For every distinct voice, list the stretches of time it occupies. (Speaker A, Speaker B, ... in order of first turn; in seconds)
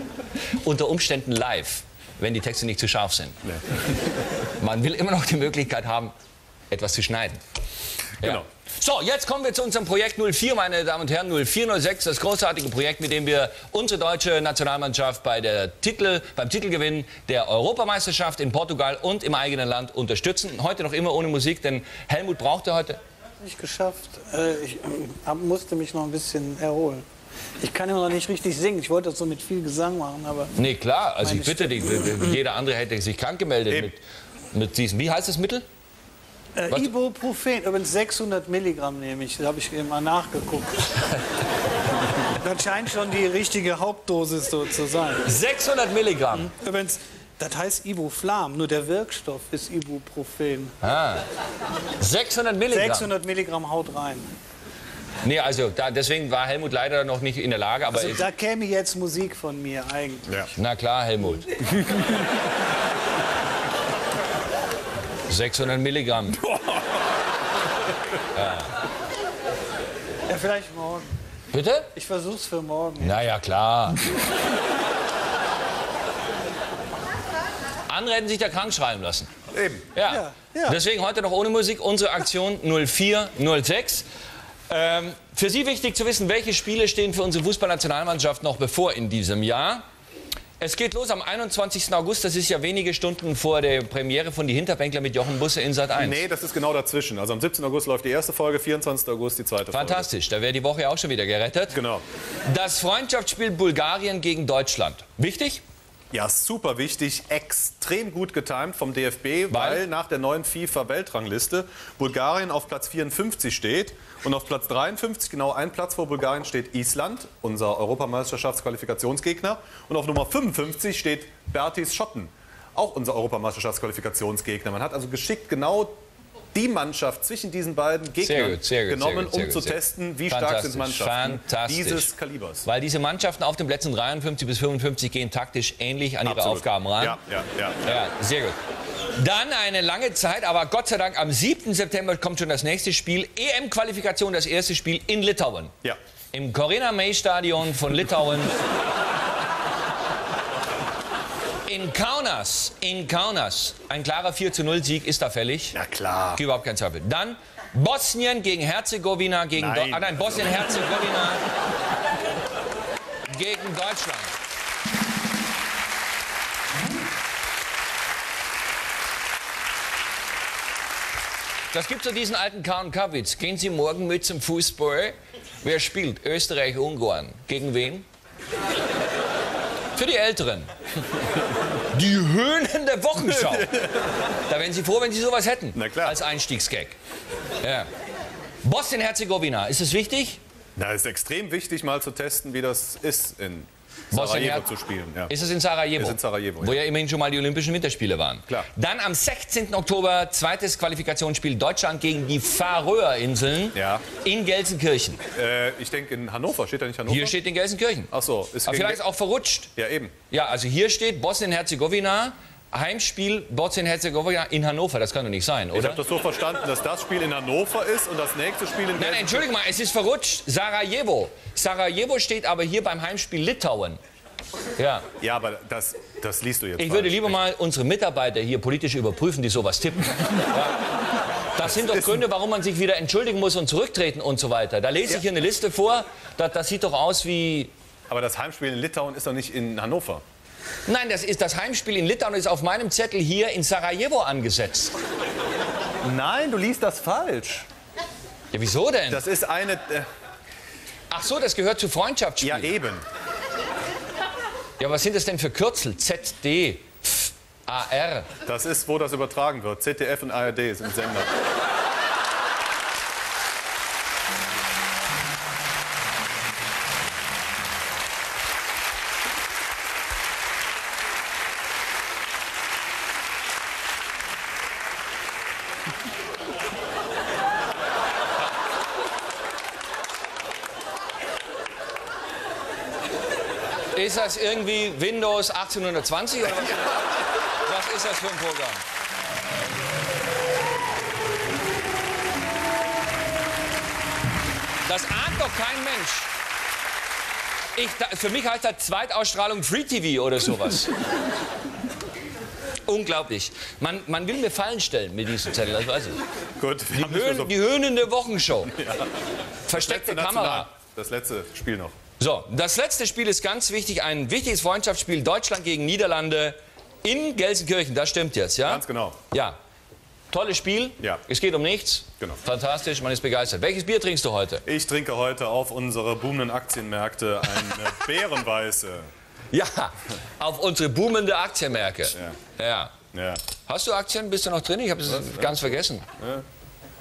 Speaker A: 0.6-3.4, 4.6-6.1, 6.7-7.4, 8.2-23.0, 30.6-35.7, 45.2-46.5, 50.8-51.2, 52.0-53.1, 55.2-58.2, 60.6-61.5, 65.3-66.4, 68.3-68.7, 71.5-71.9, 73.0-74.0, 77.9-79.3, 80.0-84.1, 84.7-89.8, 90.6-96.2, 99.7-101.8, 102.5-105.6, 109.5-109.8, 128.2-132.1, 132.6-137.2, 137.8-138.6, 139.2-145.8, 146.3-148.5, 151.7-155.8, 156.4-161.4, 163.3-164.3, 171.7-178.1, 180.0-180.7, 181.9-183.9, 184.5-187.0, 187.6-187.9, 188.6-190.4, 194.1-194.7, 195.3-205.2, 207.1-208.1, 208.7-209.7, 210.3-216.0, 219.0-224.0, 224.8-225.1, 226.8-230.8, 231.6-237.7, 240.9-244.9, 248.5-249.2, 251.1-252.8, 254.8-258.3, 283.9-288.8, 294.9-296.3, 297.8-300.9, 302.9-306.2, 306.9-308.8, 309.7-310.7, 312.2-319.6, 320.3-324.6, 329.5-333.0, 333.6-336.1
Speaker B: 3.4-4.0, 8.2-8.5, 66.5-66.8, 79.5-79.9, 95.9-100.1, 101.7-102.0, 106.1-126.0, 126.5-132.7, 136.2-138.0, 155.7-156.4, 159.6-160.6, 183.2-184.1, 185.7-186.2, 190.8-195.3, 196.0-196.8, 203.7-204.1, 205.3-207.4, 208.1-209.0, 209.8-210.2, 215.7-219.5, 225.2-227.4, 231.6-232.2, 238.1-240.2, 246.0-247.7, 249.1-250.1, 252.4-253.1, 258.4-261.4, 306.6-307.5, 308.7-309.1, 309.7-312.0, 318.7-319.2, 324.6-329.1, 333.1-333.4, 335.1-336.4
Speaker C: 23.4-27.1, 27.6-30.5, 31.2-32.4, 36.6-40.8, 42.3-45.2, 46.3-50.8, 52.7-54.3, 57.9-60.4, 70.3-71.1, 72.0-73.3, 80.1-80.6